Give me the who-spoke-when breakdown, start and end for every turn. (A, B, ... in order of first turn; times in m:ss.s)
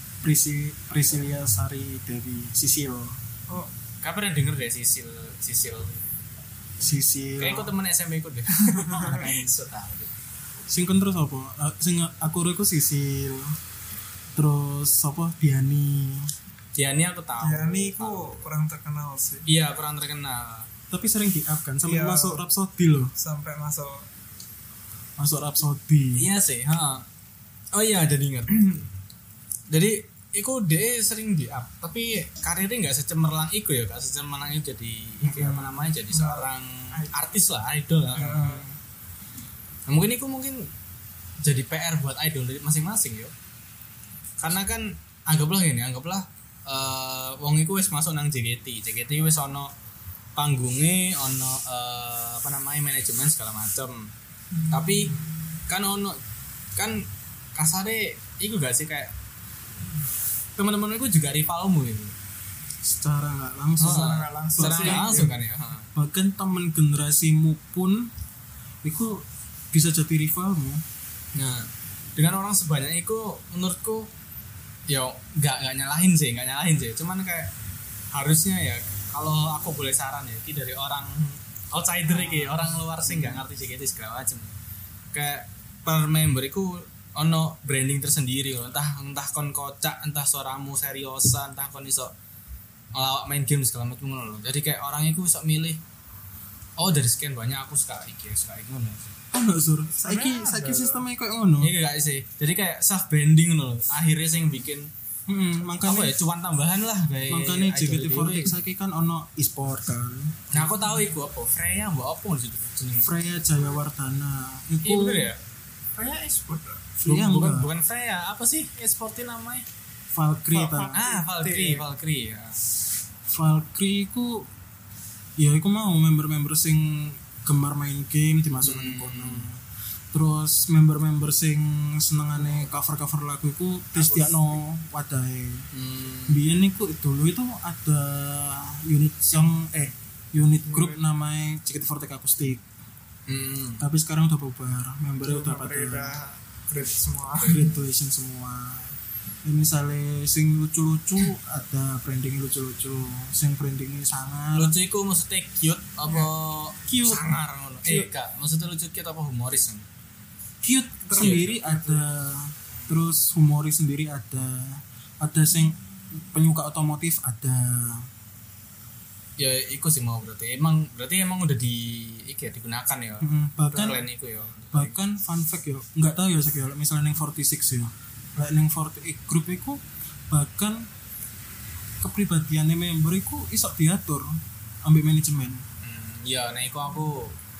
0:00.2-0:03.2 A
0:04.0-0:06.1 B
0:06.8-0:07.7 A
0:07.4-0:10.1 B
0:08.6-0:09.2 C
0:09.1-0:09.4 A
0:10.7-0:13.6 A
0:14.3-0:16.3 A
0:16.7-0:18.4 B
0:17.4-0:19.4 C
0:19.4-0:20.7 B
0:20.9-0:23.1 A
0:21.8-0:22.4 C
0:23.2-0:24.0 C
0:25.2-0:26.3 A
0:26.2-0:27.0 B
0:27.7-0:28.8 B
0:29.7-0:38.6 B
0:35.2-0:35.8 A
0:36.1-0:37.1 C
0:38.1-0:38.6 C
0:38.2-0:38.7 A
0:39.9-0:40.7 B
0:41.4-0:43.3 B
0:44.4-0:49.7 B
0:50.4-0:54.1 B
0:54.6-0:55.3 C
0:54.7-0:56.2 B
0:56.8-0:59.1 B
1:00.6-1:02.1 B
1:02.8-1:05.4 A
1:03.8-1:05.9 B
1:03.8-1:05.3 C
1:05.9-1:08.1 A
1:08.8-1:10.8 A
1:11.3-1:14.1 B
1:14.9-1:17.5 B
1:18.1-1:24.5 B
1:22.1-1:22.6 C
1:23.1-1:23.4 A
1:25.1-1:32.1 B
1:32.9-1:35.8 B
1:36.8-1:39.2 B
1:39.3-1:41.7 A
1:40.0-1:41.0 C
1:41.6-1:44.9 B
1:45.3-1:46.1 A
1:45.8-1:48.5 B
1:47.3-1:50.7 A
1:50.5-1:53.1 B
1:53.0-1:55.3 A
1:54.8-1:55.4 B
1:56.0-1:56.9 C
1:57.0-1:57.7 A
1:57.0-1:59.6 B
2:00.1-2:01.0 A
2:00.6-2:01.8 C
2:00.9-2:02.6 B
2:03.3-2:04.5 A
2:05.4-2:15.7 A
2:08.6-2:09.5 B
2:14.0-2:14.4 C
2:15.7-2:16.4 B
2:16.3-2:22.6 A
2:20.6-2:21.0 C
2:23.3-2:23.8 B
2:23.8-2:26.2 A
2:25.3-2:27.6 C
2:27.4-2:34.7 A
2:34.5-2:39.8 B
2:36.9-2:37.2 A
2:37.8-2:38.1 A
2:40.6-2:48.1 A
2:41.1-2:42.0 C
2:41.2-2:41.5 B
2:42.7-2:43.0 B
2:49.4-2:54.9 B
2:53.2-2:54.0 A
2:54.7-3:00.9 A
3:02.0-3:05.6 A
3:05.8-3:07.4 B